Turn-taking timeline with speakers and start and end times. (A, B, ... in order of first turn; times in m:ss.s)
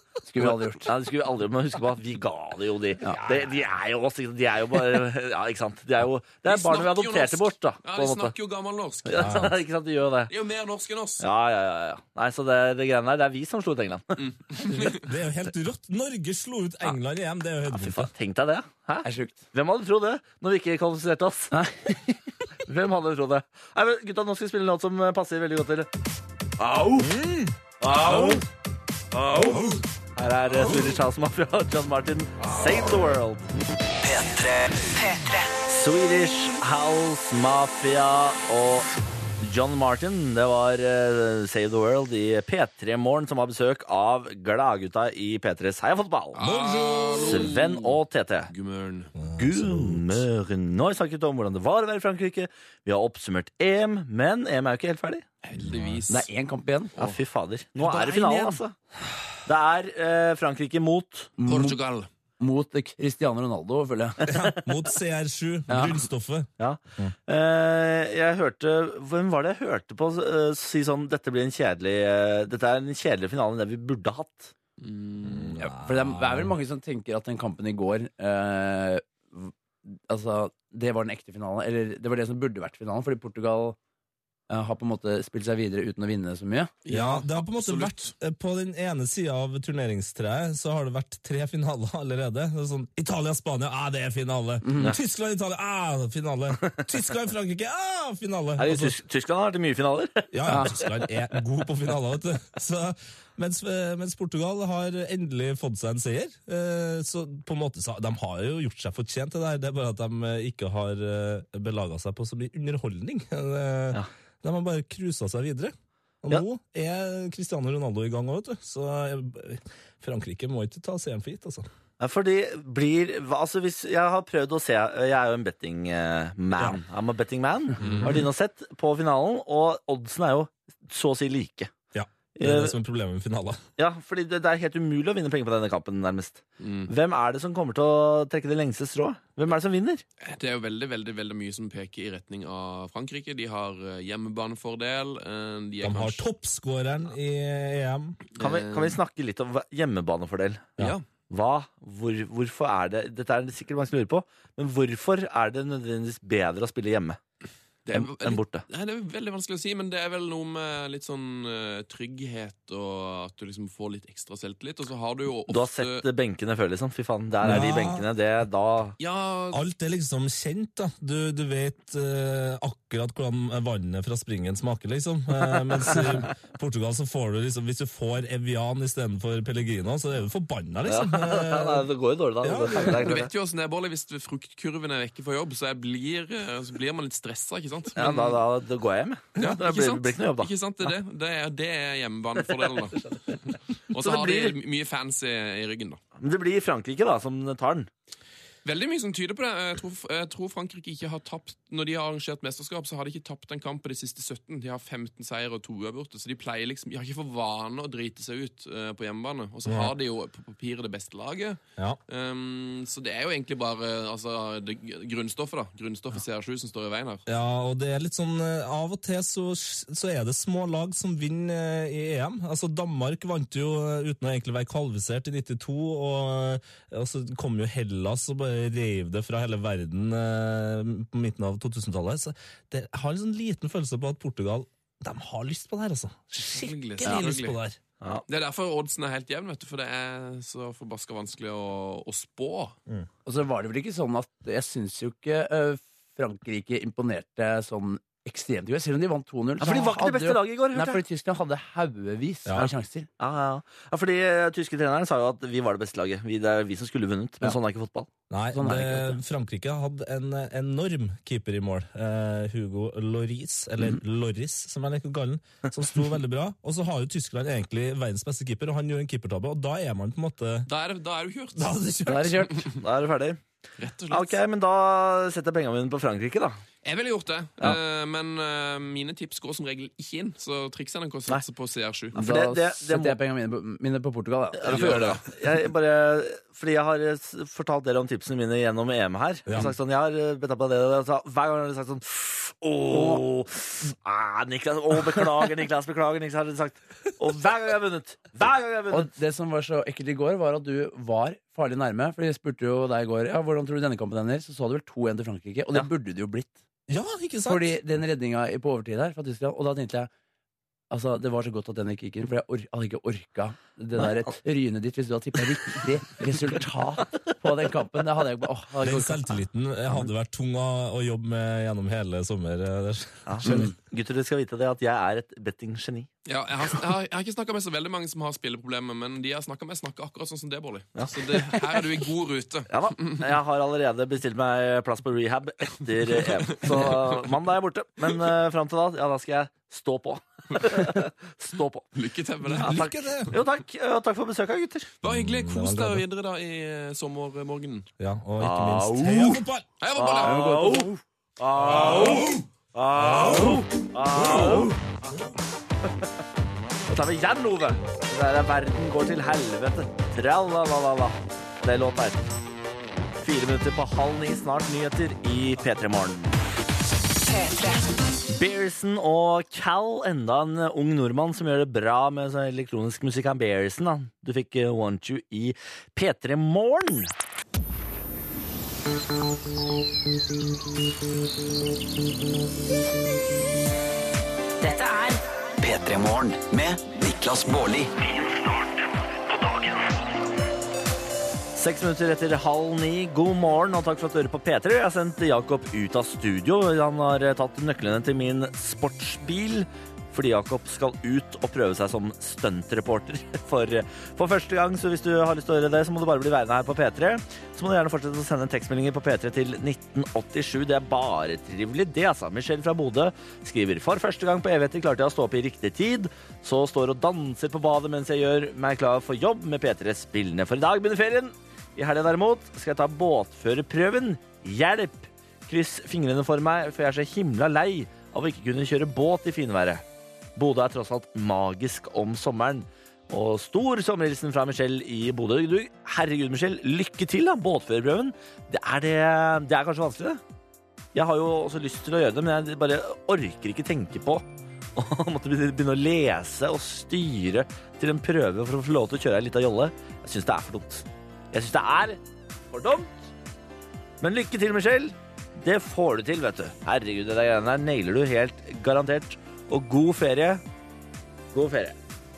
0:00.2-0:00.9 A
0:00.4-0:08.4 B
0:06.5-0:09.4 C
0:09.1-0:10.3 B
0:09.2-0:09.5 D
0:10.3-0:11.2 C
0:11.2-0:14.2 B
0:14.2-0:15.1 C
0:14.7-0:18.1 D
0:17.7-0:21.5 B
0:19.0-0:19.4 A
0:21.5-0:22.2 A
0:22.6-0:25.9 B
0:26.6-0:27.1 B
0:27.0-0:27.6 D
0:27.8-0:28.4 B
0:28.1-0:28.4 D
0:29.1-0:29.6 B
0:29.4-0:29.8 D
0:30.2-0:33.5 B
0:34.0-0:35.6 E
0:35.6-0:38.9 B
0:39.4-0:48.5 B
0:46.4-0:48.0 C
0:48.5-0:49.1 C
0:49.2-0:50.2 D
0:49.4-0:55.2 B
0:55.4-0:56.3 C
0:55.6-0:56.1 D
0:56.1-0:57.0 A
0:57.0-0:58.8 B
0:57.9-0:58.5 C
0:59.4-1:01.3 B
1:01.4-1:01.8 A
1:01.4-1:02.1 C
1:02.4-1:04.2 A
1:04.2-1:04.5 B
1:04.2-1:06.5 D
1:05.7-1:06.0 A
1:06.6-1:14.5 B
1:14.8-1:15.6 C
1:15.2-1:16.5 D
1:15.6-1:23.8 A
1:24.5-1:26.7 A
1:26.8-1:28.1 C
1:26.9-1:39.0 D
1:34.6-1:34.9 A
1:38.6-1:41.1 B
1:40.3-2:01.6 D
1:40.5-1:40.8 A
2:02.0-2:11.7 B
2:07.8-2:08.1 C
2:07.8-2:08.2 D
2:11.9-2:13.6 D
2:12.4-2:12.8 B
2:13.8-2:20.0 B
2:16.6-2:16.9 C
2:20.2-2:26.2 C
2:25.8-2:28.2 D
2:28.4-2:29.0 C
2:28.4-2:37.2 B
2:30.8-2:31.0 C
2:37.9-2:46.0 C
2:37.9-2:38.6 B
2:45.5-2:49.0 B
2:47.4-2:48.1 D
2:49.0-2:49.6 C
2:49.5-3:01.9 D
3:00.9-3:03.3 B
3:02.4-3:03.2 D
3:02.8-3:08.4 C
3:08.0-3:10.5 B
3:09.4-3:16.0 C
3:14.0-3:14.6 B
3:16.2-3:17.9 B
3:18.6-3:37.2 C
3:29.6-3:29.9 D
3:37.3-3:57.8 D
3:56.5-3:57.6 C
3:58.3-4:02.8 C
4:03.3-4:13.1 A
4:09.6-4:11.0 B
4:12.4-4:12.7 D
4:13.2-4:18.1 B
4:18.3-4:30.7 D
4:18.5-4:19.2 A
4:30.7-4:31.8 C
4:31.6-4:32.6 D
4:32.1-4:32.6 A
4:32.7-4:33.4 B
4:33.8-4:34.4 C
4:34.1-4:36.6 B
4:36.8-4:42.2 C
4:42.1-4:43.2 B
4:42.1-4:45.2 A
4:44.6-4:59.1 B
4:44.6-4:45.2 C
4:49.5-4:49.8 D
4:52.9-4:53.2 A
4:58.9-5:06.6 A
5:06.9-5:07.8 D
5:07.4-5:10.1 A
5:10.9-5:19.4 A
5:18.8-5:23.7 D
5:23.3-5:26.1 B
5:26.3-5:33.3 C
5:31.0-5:31.8 B
5:32.7-5:41.9 B
5:36.1-5:37.3 C
5:41.9-5:42.9 C
5:42.5-5:43.4 D
5:42.5-5:44.9 B
5:45.0-5:47.9 C
5:45.0-5:46.0 D
5:48.0-5:49.7 D
5:48.4-5:49.4 B
5:49.8-5:50.8 C
5:49.9-5:54.8 B
5:50.2-5:51.0 A
5:51.6-5:52.4 C
5:51.9-5:52.1 D
5:53.0-5:53.6 D
5:54.2-5:55.2 D
5:54.3-5:54.6 C
5:56.9-6:02.3 B
6:03.2-6:06.4 B
6:07.3-6:07.8 E
6:08.3-6:17.1 B
6:24.6-6:27.9 E
6:31.6-7:09.8 B
7:10.4-7:20.2 B
7:20.9-7:24.2 B
7:24.8-7:32.0 B
7:32.5-7:33.1 B
7:34.0-7:40.4 B
7:41.3-7:41.8 B